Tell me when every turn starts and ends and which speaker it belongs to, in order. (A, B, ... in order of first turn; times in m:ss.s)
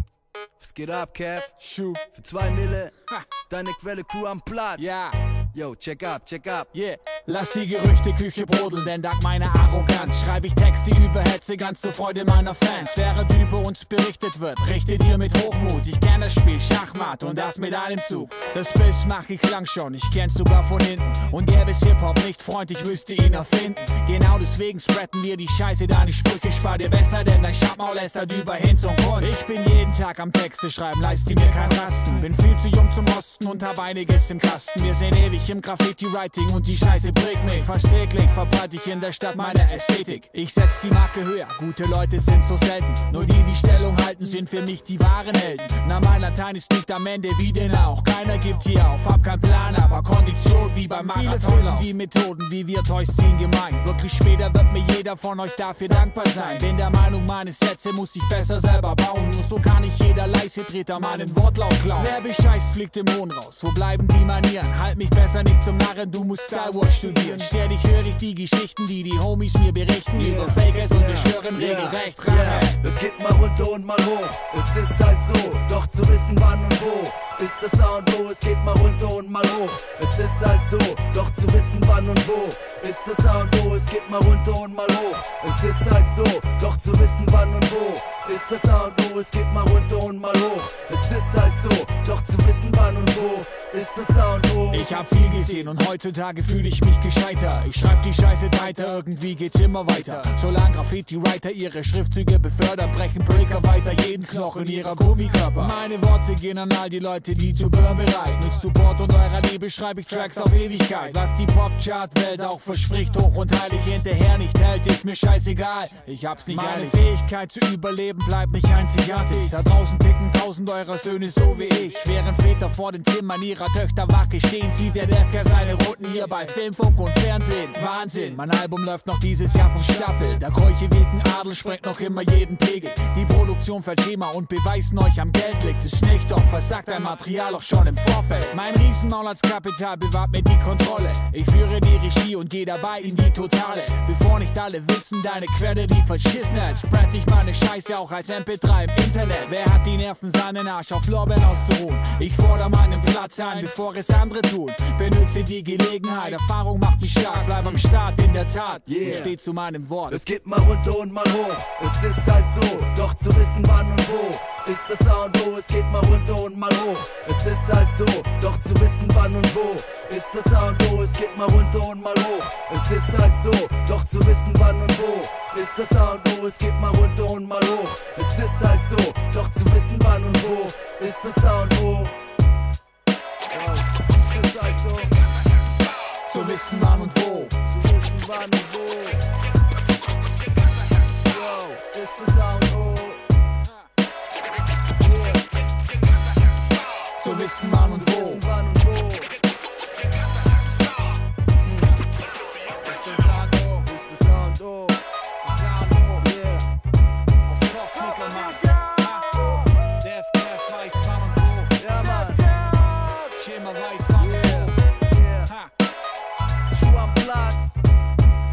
0:00.6-0:01.5 A
0:01.6-0:02.0 B
0:02.1-0:02.9 A
0:03.5-0:04.9 A
0:04.8-0:05.2 B
0:05.5-0:06.7 A
0:06.7-1:12.8 B
1:10.1-1:34.9 A
1:34.7-2:40.2 B
2:38.8-2:39.3 A
2:40.1-3:02.1 A
3:03.5-3:05.2 A
3:06.3-3:07.5 B
3:07.7-3:09.2 A
3:11.2-3:13.2 A
3:15.0-3:15.5 A
3:17.2-3:18.4 B
3:17.8-3:19.3 A
3:22.8-3:23.9 B
3:23.0-3:25.0 A
3:25.4-3:26.3 B
3:26.2-3:26.7 A
3:27.5-3:34.8 B
3:28.3-3:28.8 A
3:31.8-3:32.4 A
3:34.1-3:35.5 A
3:35.4-3:35.7 B
3:36.7-3:37.8 A